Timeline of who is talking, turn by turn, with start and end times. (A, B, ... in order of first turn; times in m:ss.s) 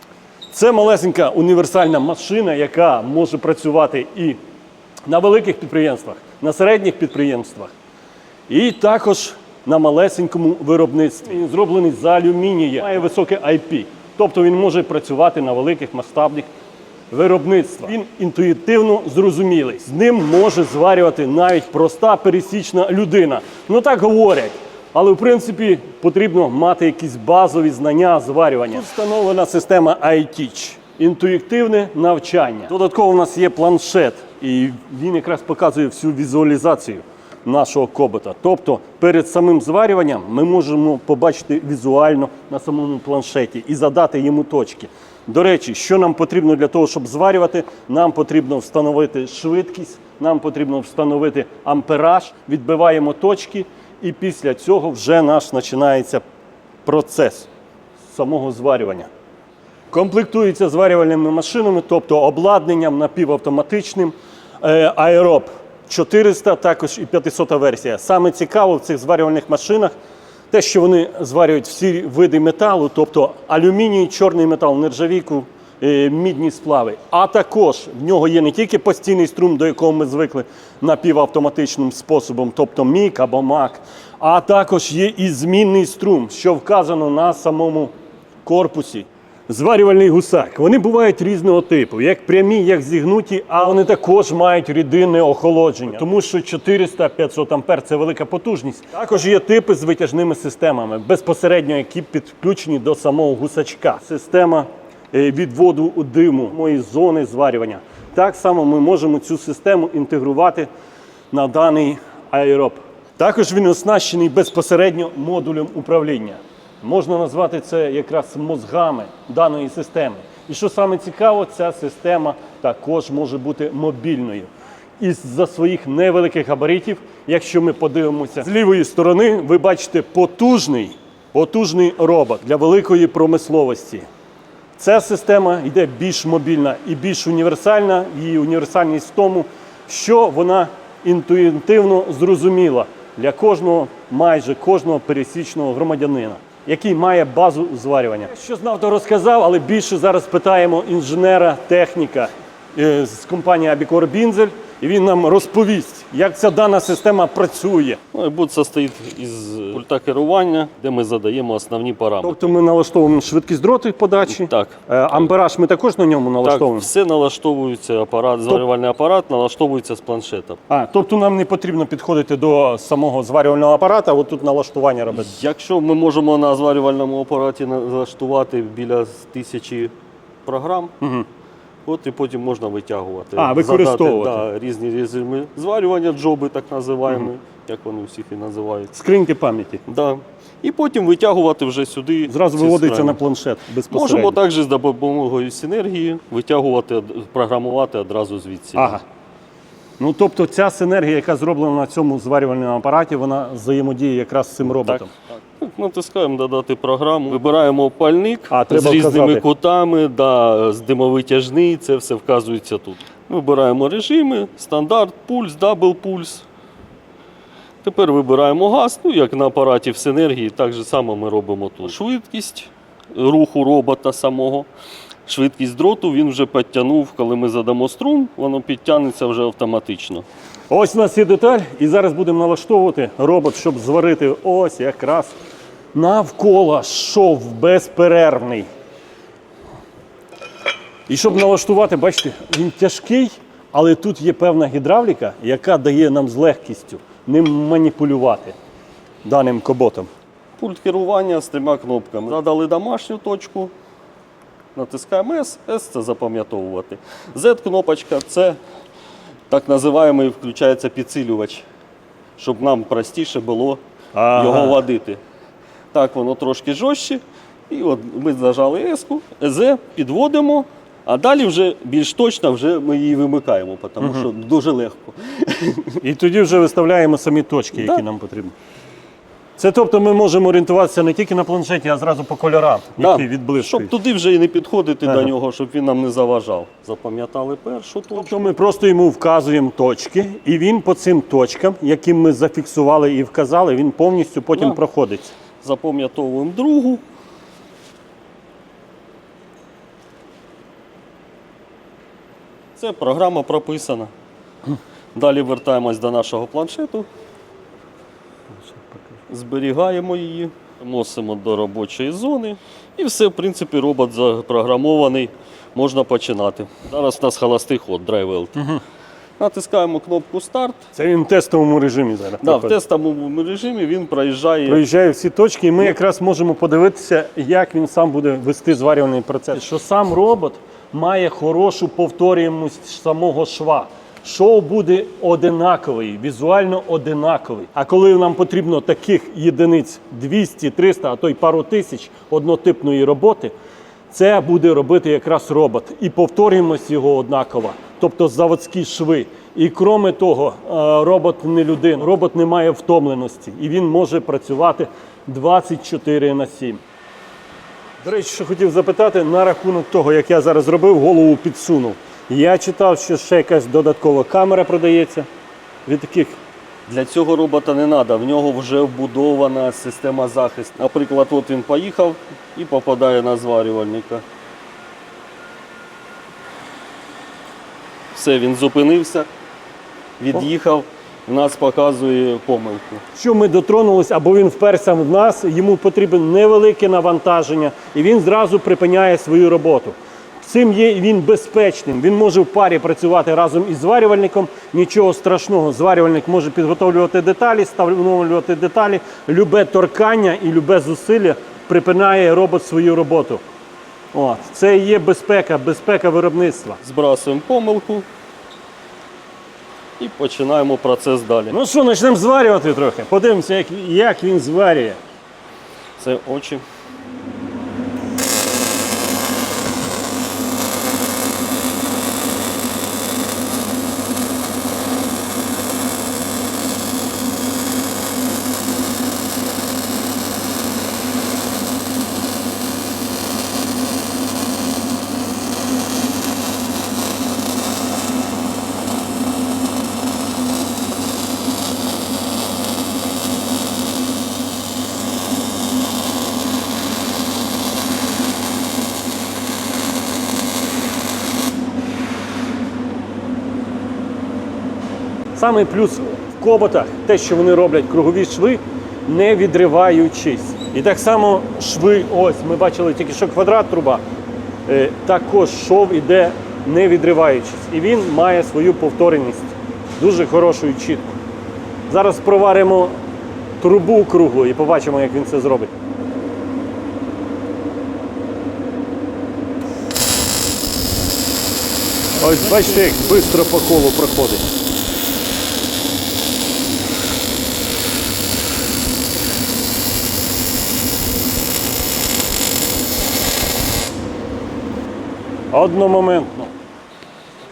0:00.5-0:04.4 A
0:05.0-0:07.7 A
0:08.5-0:16.5 A
0:17.1-0:56.2 A
0:56.8-0:57.5 A
0:58.1-0:59.1 A
0:59.9-1:09.9 A
1:10.5-1:27.9 A
1:28.4-1:50.7 A
1:51.3-2:14.0 A
2:14.8-2:38.0 A
2:38.1-2:42.5 B
2:42.2-2:46.9 A
2:44.2-2:44.8 B
2:46.4-2:50.6 B
2:50.7-2:55.4 A
2:55.1-2:59.9 B
3:00.4-3:00.9 B
3:01.0-3:01.2 A
3:01.8-3:08.9 B
3:03.4-3:04.4 A
3:08.9-3:09.8 A
3:09.9-3:13.2 B
3:12.3-3:14.4 A
3:13.9-3:19.0 B
3:18.8-3:19.0 A
3:20.0-3:25.1 A
3:25.5-3:36.4 B
3:28.5-3:29.4 A
3:37.8-3:44.7 B
3:45.2-3:50.2 B
3:50.7-3:55.4 A
3:55.9-3:58.7 A
4:01.1-4:08.6 A
4:09.2-4:10.1 A
4:10.6-4:13.7 B
4:14.7-4:18.6 B
4:19.5-4:21.6 B
4:22.4-4:23.8 B
4:24.1-4:24.8 A
4:24.3-4:25.2 B
4:25.9-4:36.0 B
4:34.0-4:34.2 A
4:36.0-4:38.5 A
4:39.6-4:43.9 A
4:43.0-4:48.5 B
4:45.0-4:45.3 A
4:48.1-4:55.3 A
4:55.6-4:57.0 B
5:02.8-5:04.1 B
5:05.1-5:07.1 B
5:08.5-5:09.2 A
5:09.3-5:18.6 B
5:19.4-5:20.9 B
5:20.9-5:22.8 A
5:22.4-5:24.8 B
5:24.6-5:43.5 A
5:44.1-5:56.8 A
5:58.0-6:05.3 A
6:05.8-6:06.4 A
6:06.9-6:14.2 B
6:18.1-6:19.3 B
6:20.2-6:23.0 B
6:23.1-6:43.4 A
6:44.1-6:46.8 A
6:46.8-6:48.0 B
6:50.0-6:51.6 B
6:51.5-6:55.0 A
6:56.0-6:56.6 B
7:35.3-7:44.0 A
7:44.7-7:51.2 A
7:51.9-7:53.0 A
7:53.6-7:55.7 A
8:02.2-8:04.5 A
8:15.5-8:16.5 A